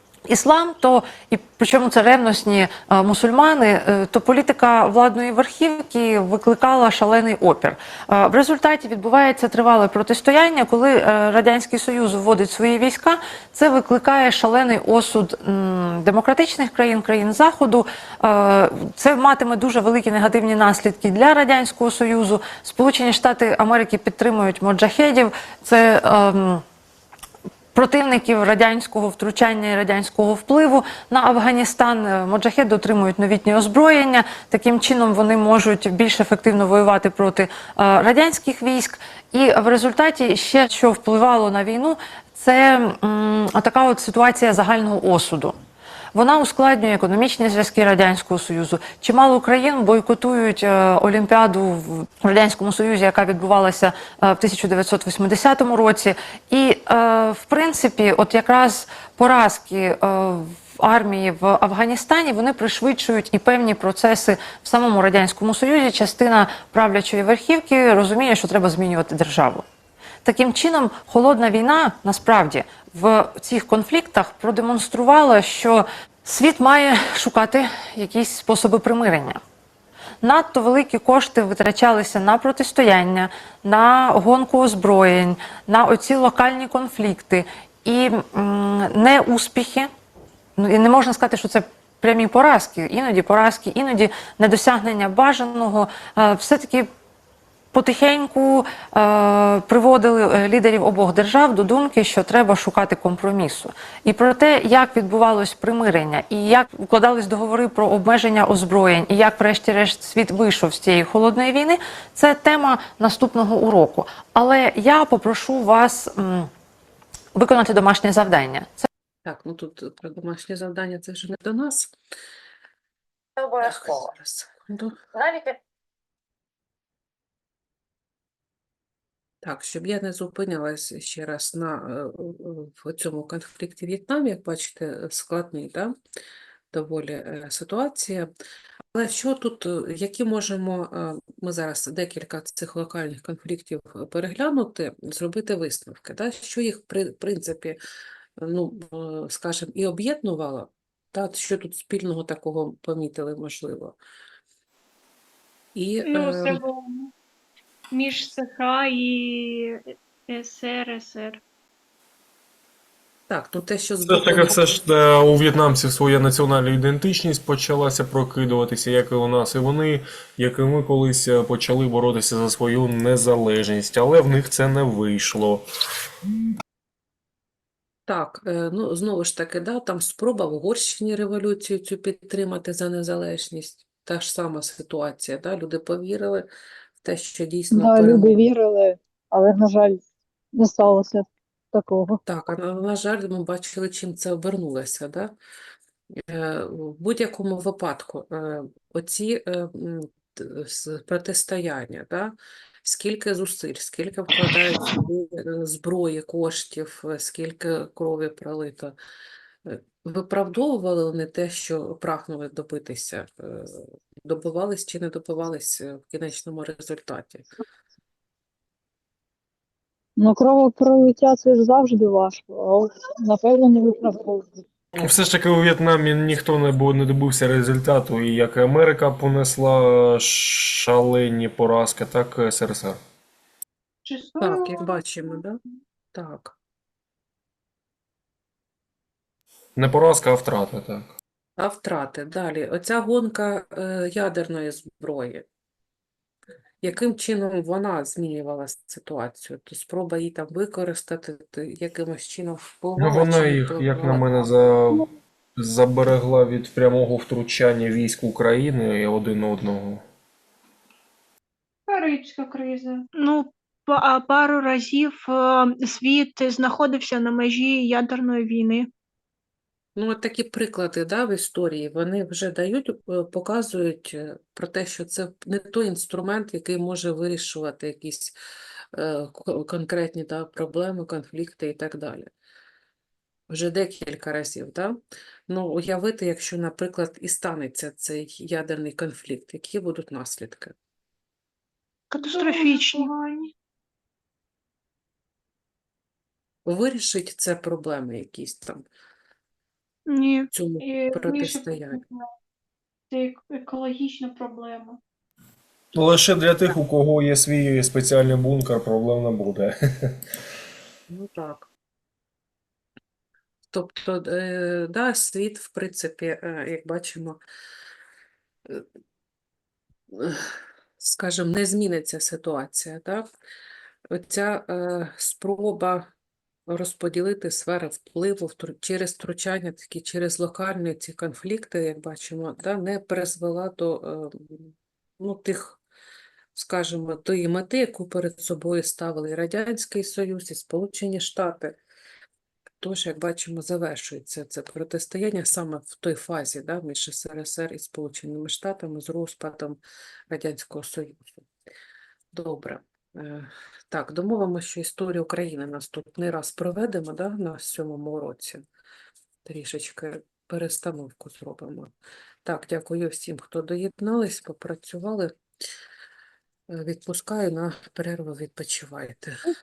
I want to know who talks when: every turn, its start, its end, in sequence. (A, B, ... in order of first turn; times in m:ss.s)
0:00.3-0:26.6 A
0:27.7-0:45.5 A
0:46.1-1:09.6 A
1:10.2-1:19.4 A
1:20.2-1:29.9 A
1:30.6-1:36.9 A
1:37.7-1:56.5 A
1:57.3-1:58.9 A
1:59.2-2:01.9 B
2:03.4-2:04.1 A
2:03.6-2:05.0 B
2:05.1-2:05.6 A
2:09.4-2:15.9 B
2:16.7-2:18.3 B
2:18.9-2:27.8 B
2:28.4-2:34.0 B
2:35.8-2:36.6 B
2:36.0-2:37.1 C
2:37.9-2:41.4 C
2:43.3-2:44.7 B
2:44.1-2:55.6 D
2:58.1-3:06.5 B
3:07.0-3:08.4 B
3:07.7-3:10.0 E
3:10.6-3:12.2 E
3:12.2-3:15.3 B
3:16.3-3:29.0 B
3:29.7-3:37.4 B
3:40.2-3:44.6 E
3:45.0-3:53.0 D
3:54.0-3:55.0 C
3:54.4-3:55.6 B
3:56.1-3:56.6 B
3:59.8-4:01.1 D
4:01.6-4:05.5 B
4:06.8-4:14.5 B
4:13.0-4:20.0 D
4:21.9-4:28.9 C
4:30.0-4:38.3 B
4:38.9-4:42.3 B
4:43.5-4:45.0 B
4:45.5-4:50.8 B
4:52.1-4:53.5 C
4:52.3-4:52.7 B
4:56.7-4:58.8 B
5:00.1-5:02.3 C
5:00.5-5:02.0 B
5:03.1-5:05.0 C
5:05.9-5:10.2 D
5:11.1-5:11.7 B
5:13.7-5:17.4 B
5:20.1-5:23.3 B
5:24.1-5:26.1 B
5:26.7-5:35.8 B
5:36.6-5:41.8 B
5:42.8-5:49.8 B
5:50.3-5:51.5 B
5:52.3-5:58.6 B
5:59.4-6:01.9 B
6:02.4-6:05.3 B
6:06.7-6:09.3 B